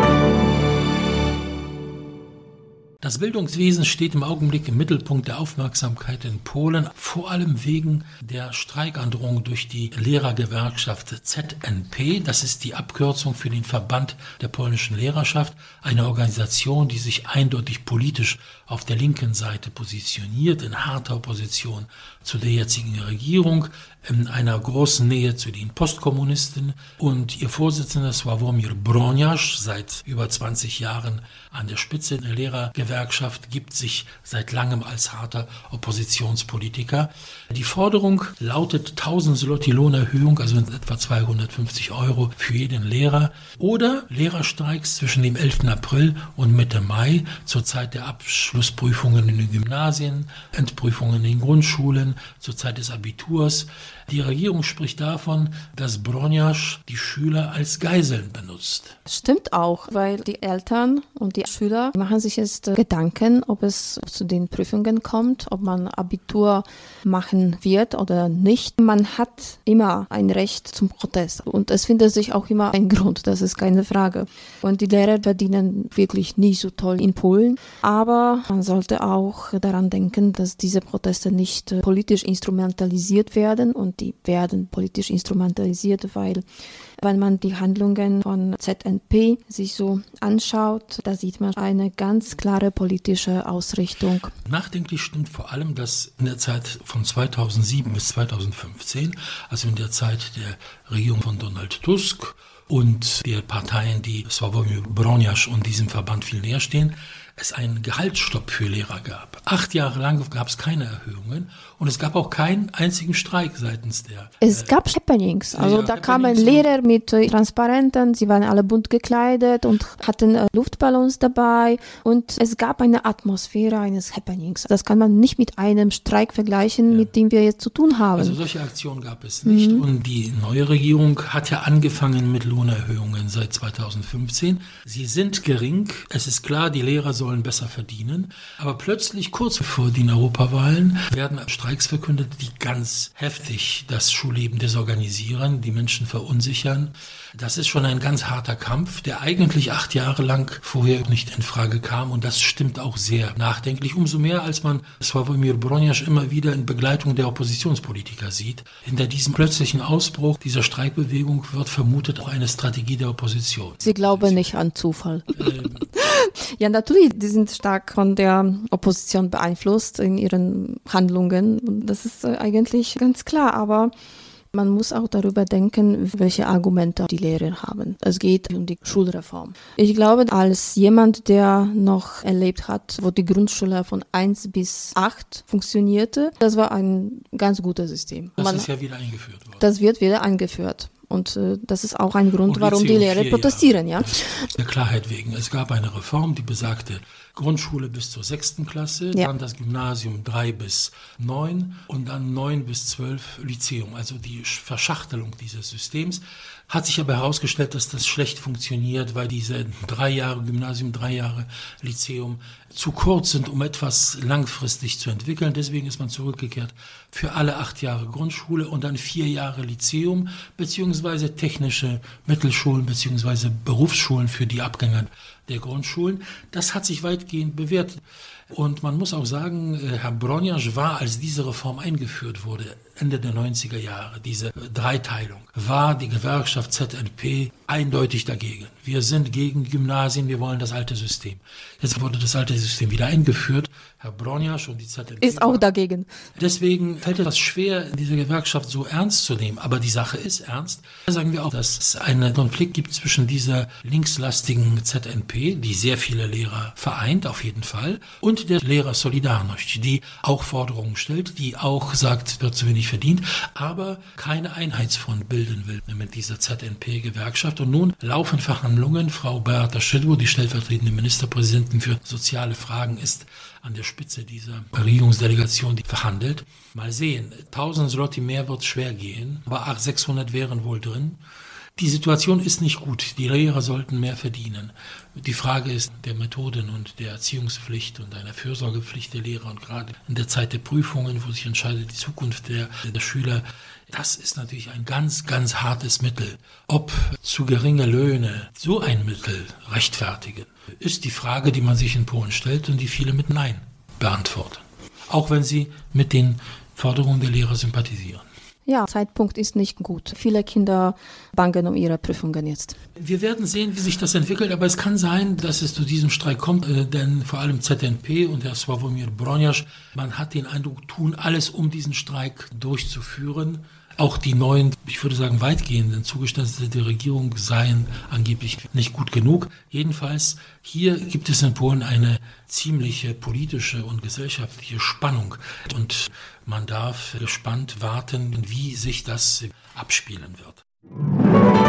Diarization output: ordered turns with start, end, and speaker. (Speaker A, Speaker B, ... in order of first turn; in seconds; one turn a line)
Speaker A: 3.0-59.0
Speaker B: 59.1-86.4
Speaker B: 87.0-94.3
Speaker A: 94.5-114.7
Speaker B: 114.4-128.4
Speaker A: 115.5-116.7
Speaker A: 128.1-164.5
Speaker B: 129.4-129.8
Speaker B: 163.8-173.9
Speaker A: 165.3-165.9
Speaker B: 174.5-188.7
Speaker A: 188.4-189.6
Speaker B: 189.6-194.5
Speaker A: 192.4-245.6
Speaker B: 245.2-246.1
Speaker A: 246.3-281.2
Speaker A: 281.8-308.2
Speaker B: 308.6-312.8
Speaker A: 313.0-340.6